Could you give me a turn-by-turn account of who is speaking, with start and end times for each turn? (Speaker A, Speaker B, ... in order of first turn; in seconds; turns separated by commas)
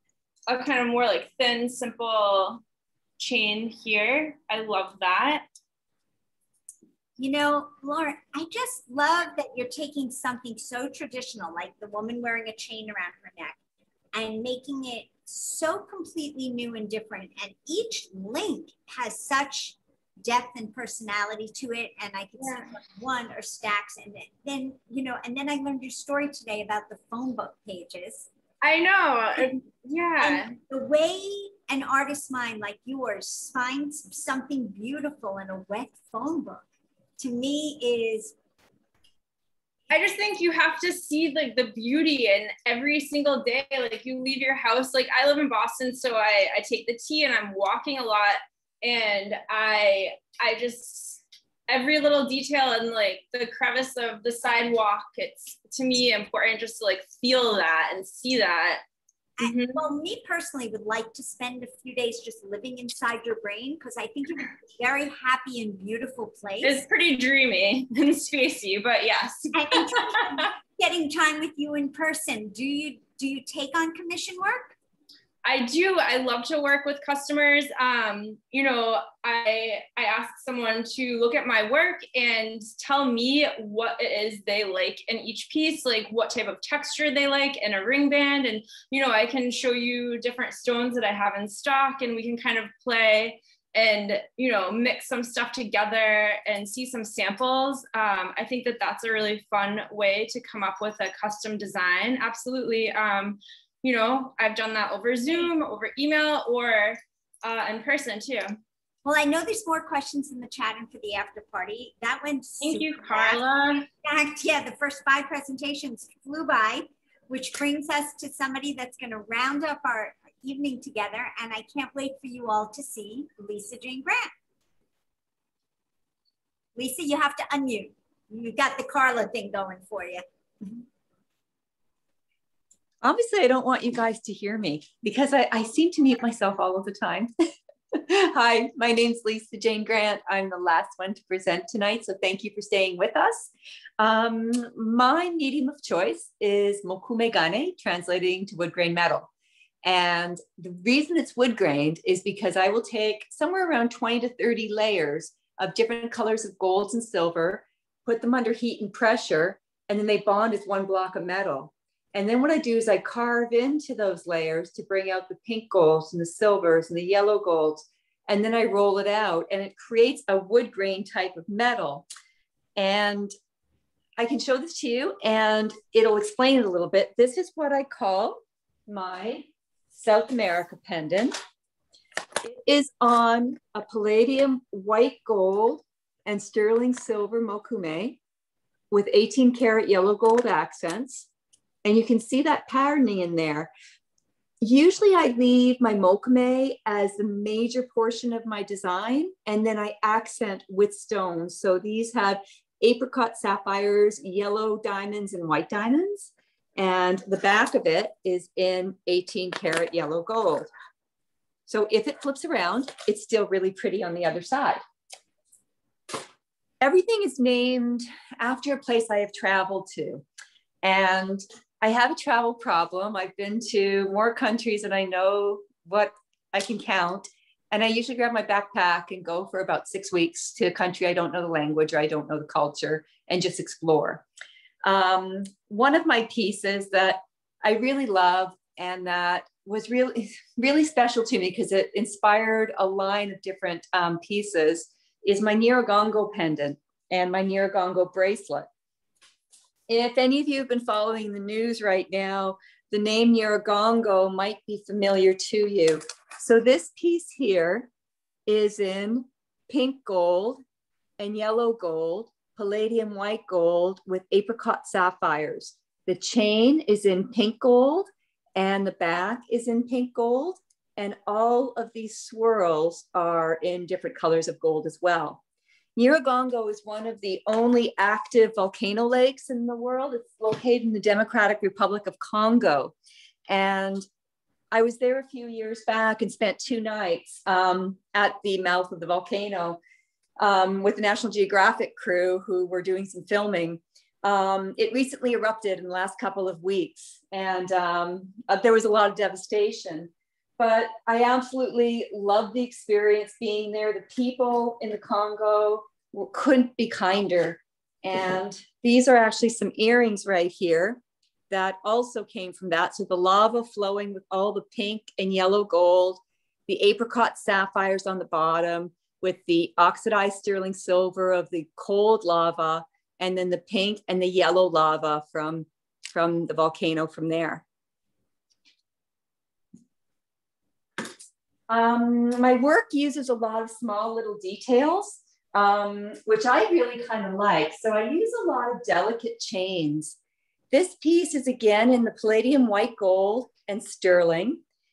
Speaker A: 0.5-2.6, Speaker A: 3.2-5.5, Speaker B: 7.2-13.6, Speaker B: 14.1-28.3, Speaker A: 22.4-22.7, Speaker A: 28.6-30.6, Speaker B: 30.2-36.6, Speaker B: 37.2-38.4, Speaker A: 39.9-58.8, Speaker B: 59.4-66.8, Speaker A: 59.4-59.9, Speaker A: 66.6-70.5, Speaker B: 69.5-74.8, Speaker A: 75.4-108.6, Speaker B: 109.0-124.3, Speaker A: 112.6-113.9, Speaker B: 126.8-130.2, Speaker C: 133.0-137.3, Speaker C: 137.9-149.3, Speaker C: 149.8-172.1, Speaker C: 172.8-173.3, Speaker C: 174.2-181.4, Speaker C: 182.4-188.2, Speaker C: 188.9-191.3, Speaker C: 191.8-193.7, Speaker C: 194.6-210.7, Speaker C: 211.7-214.8, Speaker C: 216.8-220.2, Speaker C: 220.8-234.2, Speaker C: 234.8-248.7, Speaker C: 249.9-257.9, Speaker C: 258.5-260.6, Speaker C: 261.2-275.4, Speaker C: 276.0-282.9, Speaker C: 283.5-284.1, Speaker C: 284.7-289.8, Speaker C: 290.4-327.6, Speaker C: 331.7-340.2, Speaker C: 340.7-344.6